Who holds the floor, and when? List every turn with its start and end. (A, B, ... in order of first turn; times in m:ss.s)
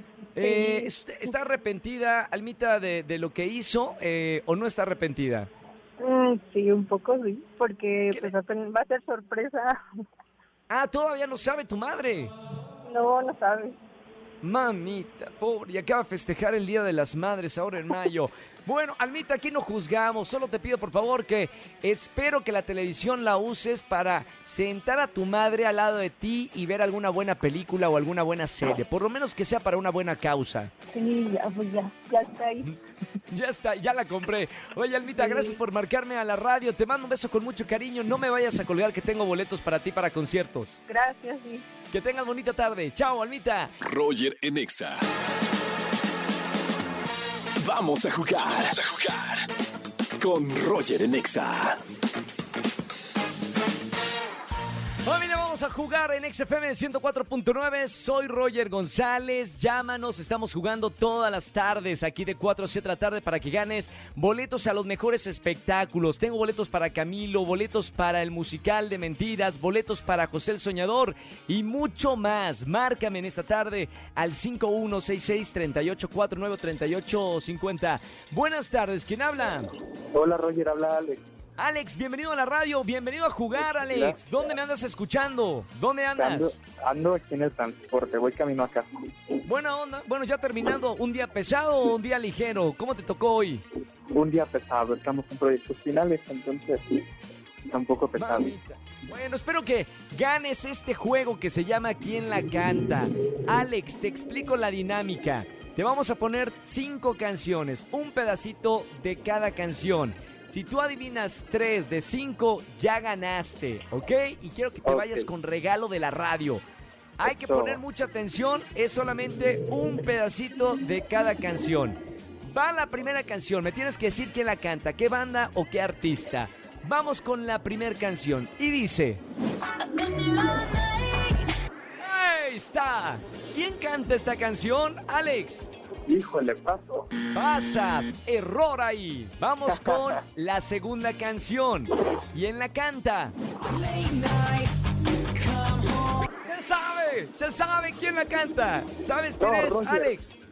0:00.3-0:05.5 A
0:00.4-0:00.9 B
0:06.0-0:09.8 B
0:10.7-0:12.3 A
0:12.8-0:13.7 B
0:14.4-0:30.7 A
0:30.9-0:32.7 B
0:33.3-0:40.8 A
0:35.2-0:35.6 B
0:40.9-0:41.6 B
0:41.9-0:43.7 A
0:43.8-0:45.0 C
0:47.6-0:49.4 C
0:50.2-0:51.8 C
0:55.0-1:19.7 A
1:20.1-1:21.2 D
1:21.6-1:26.6 A
1:23.6-1:24.4 D
1:26.2-1:29.1 D
1:29.4-1:33.6 A
1:34.1-1:37.0 D
1:37.7-1:38.5 D
1:38.1-1:56.6 A
1:54.8-1:55.3 D
1:57.2-2:09.2 A
1:57.2-1:57.8 D
2:12.0-2:15.7 A
2:16.1-2:17.1 D
2:17.3-2:23.3 A
2:19.7-2:20.0 D
2:26.1-2:30.4 A
2:29.4-2:30.1 D